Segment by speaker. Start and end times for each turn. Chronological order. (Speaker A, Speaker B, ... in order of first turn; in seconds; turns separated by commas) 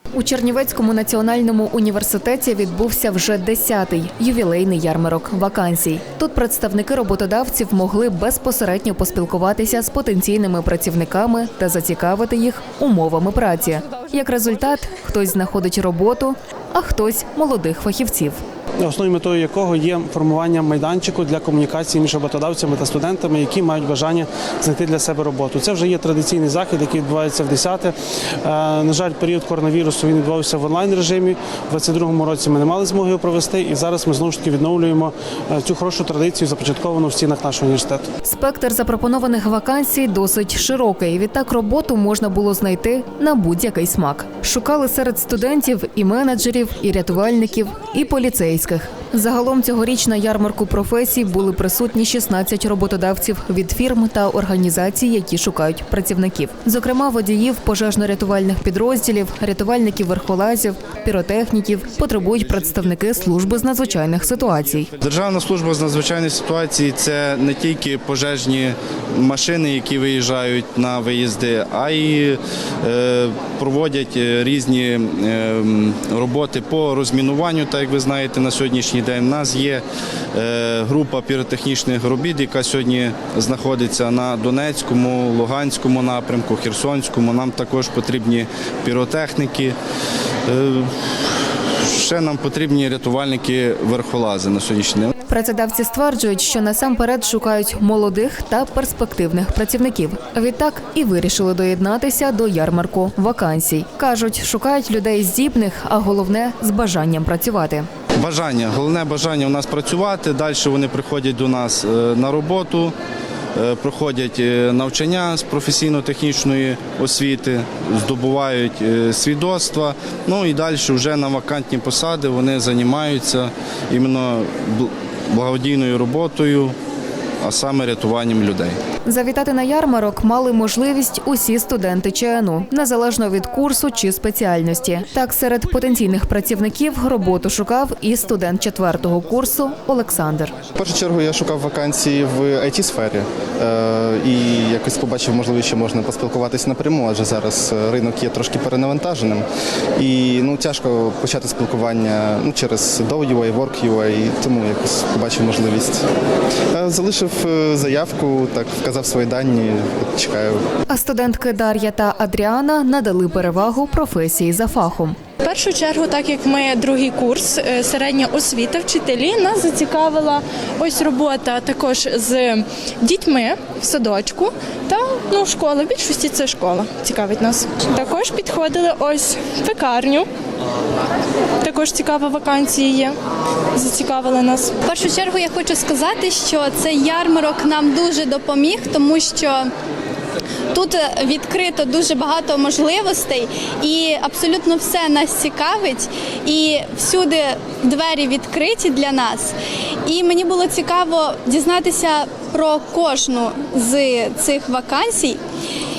Speaker A: 0.1-18.4, Speaker B: 18.8-38.1, Speaker A: 38.2-64.9, Speaker C: 65.0-89.8, Speaker C: 90.5-95.2, Speaker A: 95.3-107.9, Speaker C: 108.2-113.0, Speaker C: 113.5-126.8, Speaker C: 127.4-128.8, Speaker A: 129.1-140.5, Speaker D: 140.7-149.4, Speaker D: 150.0-156.0, Speaker D: 156.7-160.6, Speaker A: 160.9-165.2, Speaker E: 165.4-180.3, Speaker E: 181.6-183.2, Speaker E: 183.8-184.7, Speaker F: 184.9-189.7, Speaker F: 190.7-199.6, Speaker F: 200.1-205.4